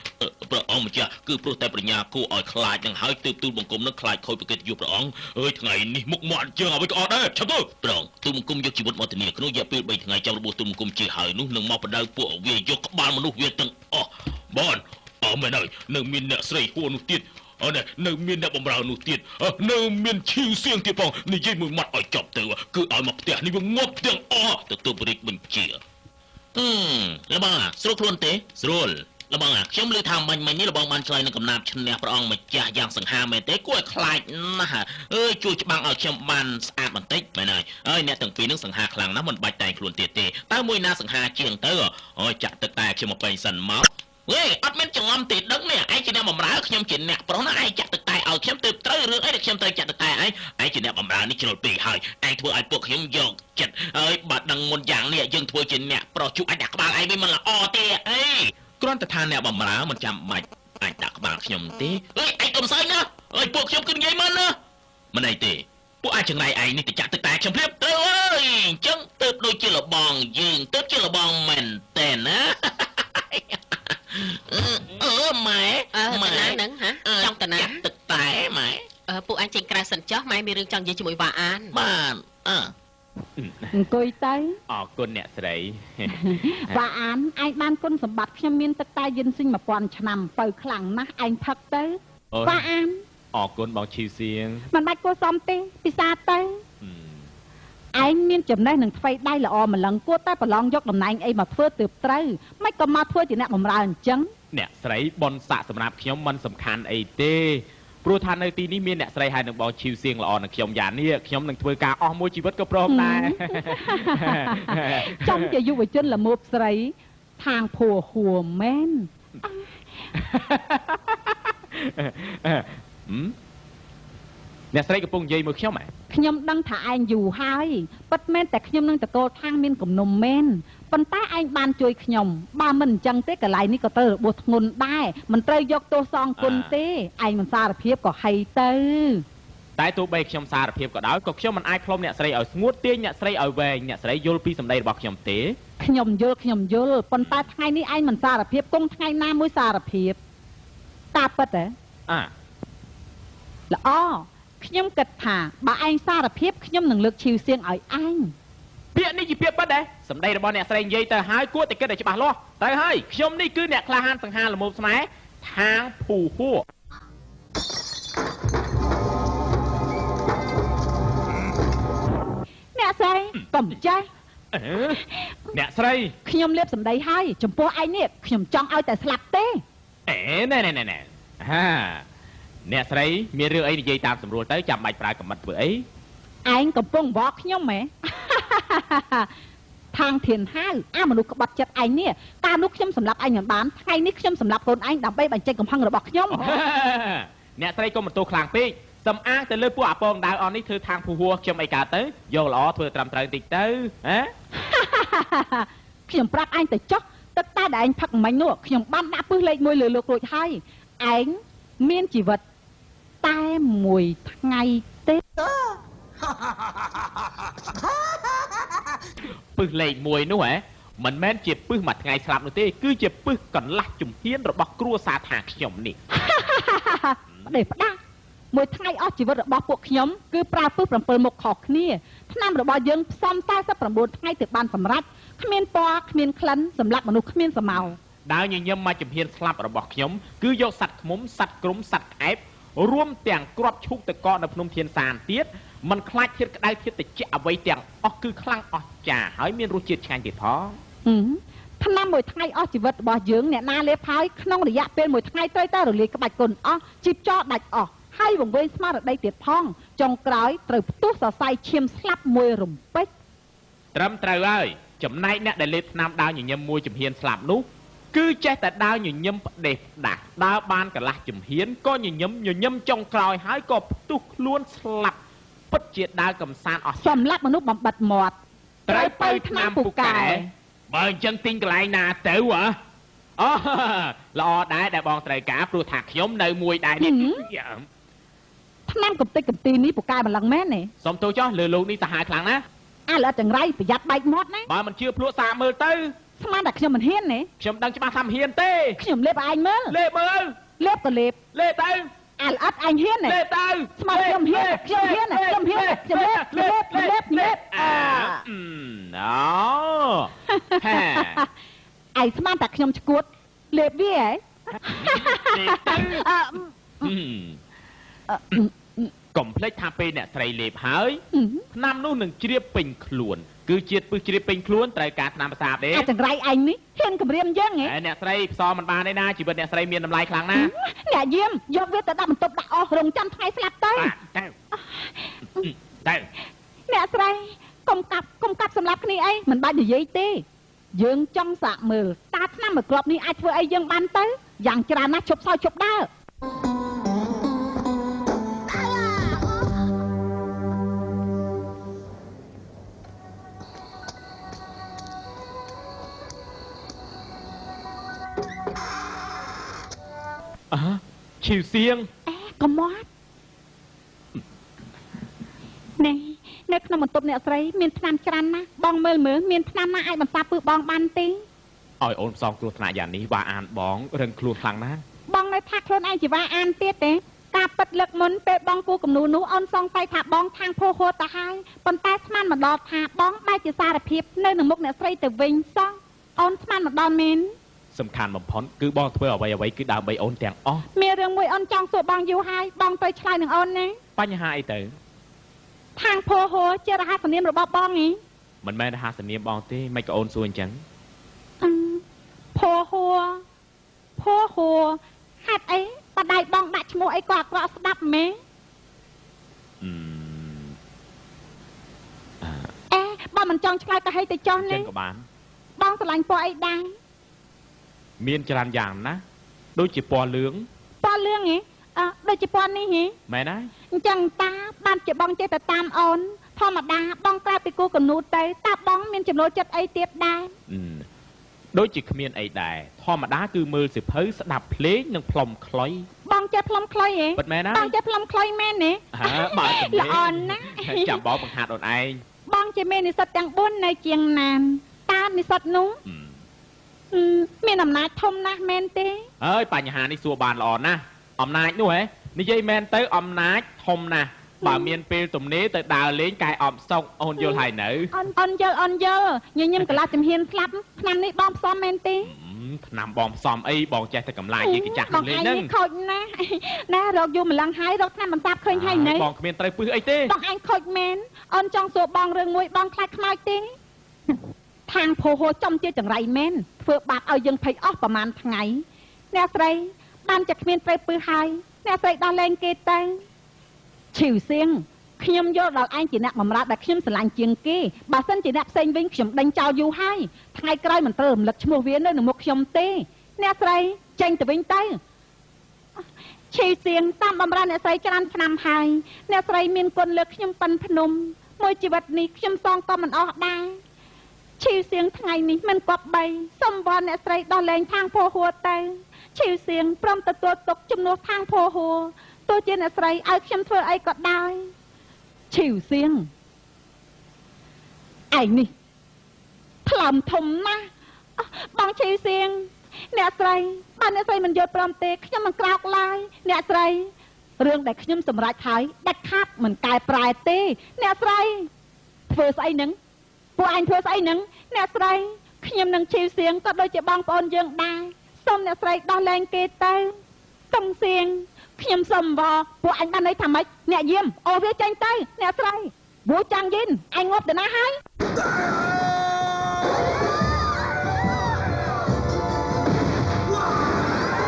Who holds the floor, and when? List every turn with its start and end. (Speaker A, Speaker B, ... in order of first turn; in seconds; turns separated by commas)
Speaker A: 0.2-25.8, Speaker A: 26.5-64.5, Speaker A: 65.1-78.9, Speaker B: 75.9-77.8, Speaker B: 79.1-81.7, Speaker A: 81.7-82.7, Speaker C: 83.4-83.7, Speaker D: 83.7-84.6, Speaker C: 84.7-86.8, Speaker D: 86.1-93.0, Speaker C: 92.3-92.6, Speaker C: 93.3-94.7, Speaker D: 94.7-96.6, Speaker C: 96.8-97.3, Speaker D: 97.9-104.3, Speaker C: 104.5-115.6, Speaker D: 112.9-119.7, Speaker C: 120.1-123.3, Speaker C: 124.7-125.9, Speaker D: 126.1-139.2, Speaker C: 136.4-136.7, Speaker C: 139.8-145.6, Speaker D: 145.8-150.2, Speaker C: 147.2-147.5, Speaker D: 151.1-151.7, Speaker D: 153.7-158.3, Speaker C: 158.9-166.6, Speaker D: 172.7-174.1, Speaker C: 174.5-175.0, Speaker D: 175.0-175.3, Speaker C: 175.5-176.1, Speaker D: 176.2-179.6, Speaker C: 180.1-182.0, Speaker C: 182.7-185.8, Speaker D: 186.4-189.3, Speaker D: 189.9-196.5, Speaker C: 196.3-204.3, Speaker D: 204.6-212.4, Speaker D: 213.2-215.2, Speaker C: 219.5-226.0, Speaker D: 226.1-228.0, Speaker D: 228.5-237.9, Speaker C: 237.7-250.8, Speaker D: 251.1-263.1, Speaker C: 263.9-275.2, Speaker C: 275.7-277.2, Speaker D: 277.0-278.3, Speaker C: 278.9-282.8, Speaker D: 278.9-280.5, Speaker C: 283.4-287.9, Speaker D: 287.0-287.4, Speaker D: 288.9-290.9, Speaker C: 291.0-292.6, Speaker D: 293.1-294.7, Speaker C: 294.7-296.1, Speaker D: 296.4-297.5, Speaker C: 297.6-299.0, Speaker D: 299.0-299.9, Speaker C: 299.9-300.6, Speaker D: 300.8-301.4, Speaker C: 301.5-302.1, Speaker D: 302.4-303.4, Speaker C: 303.2-311.4, Speaker D: 304.0-308.4, Speaker D: 310.5-311.5, Speaker D: 312.1-317.1, Speaker C: 315.0-316.2, Speaker C: 317.0-317.6, Speaker D: 318.3-319.1, Speaker C: 319.3-321.2, Speaker D: 321.3-321.6, Speaker C: 321.7-326.1, Speaker D: 325.9-327.9, Speaker C: 327.8-330.7, Speaker D: 330.5-334.1, Speaker C: 333.9-334.5, Speaker D: 334.7-335.7, Speaker C: 335.6-336.3, Speaker D: 336.9-346.1, Speaker C: 360.7-362.1, Speaker D: 362.3-363.1, Speaker D: 366.0-371.4, Speaker C: 372.0-375.0, Speaker D: 375.3-387.5, Speaker C: 387.9-390.9, Speaker D: 390.9-394.0, Speaker C: 394.2-394.9, Speaker D: 396.0-398.2, Speaker C: 398.6-400.8, Speaker D: 401.6-402.0, Speaker D: 402.5-403.4, Speaker D: 404.2-408.4, Speaker C: 409.8-410.8, Speaker C: 412.4-412.7, Speaker D: 412.9-414.9, Speaker C: 414.6-415.3, Speaker D: 415.8-416.9, Speaker C: 418.2-419.2, Speaker C: 419.7-420.7, Speaker D: 421.0-423.1, Speaker C: 423.3-423.7, Speaker D: 423.9-430.5, Speaker C: 430.7-431.1, Speaker C: 431.7-436.1, Speaker D: 436.2-441.2, Speaker C: 437.4-437.9, Speaker C: 439.1-442.2, Speaker D: 442.5-446.0, Speaker C: 446.0-446.4, Speaker D: 447.1-449.3, Speaker C: 449.4-458.1, Speaker D: 454.6-454.9, Speaker D: 457.4-462.3, Speaker C: 462.2-465.7, Speaker D: 464.6-469.3, Speaker C: 468.7-470.3, Speaker D: 470.3-473.7, Speaker D: 474.9-483.2, Speaker D: 484.1-495.0, Speaker D: 496.5-503.8, Speaker D: 504.6-514.7, Speaker D: 515.5-516.3, Speaker D: 518.3-518.7, Speaker D: 519.9-531.7, Speaker D: 532.3-533.0, Speaker D: 533.6-540.2, Speaker D: 540.7-548.0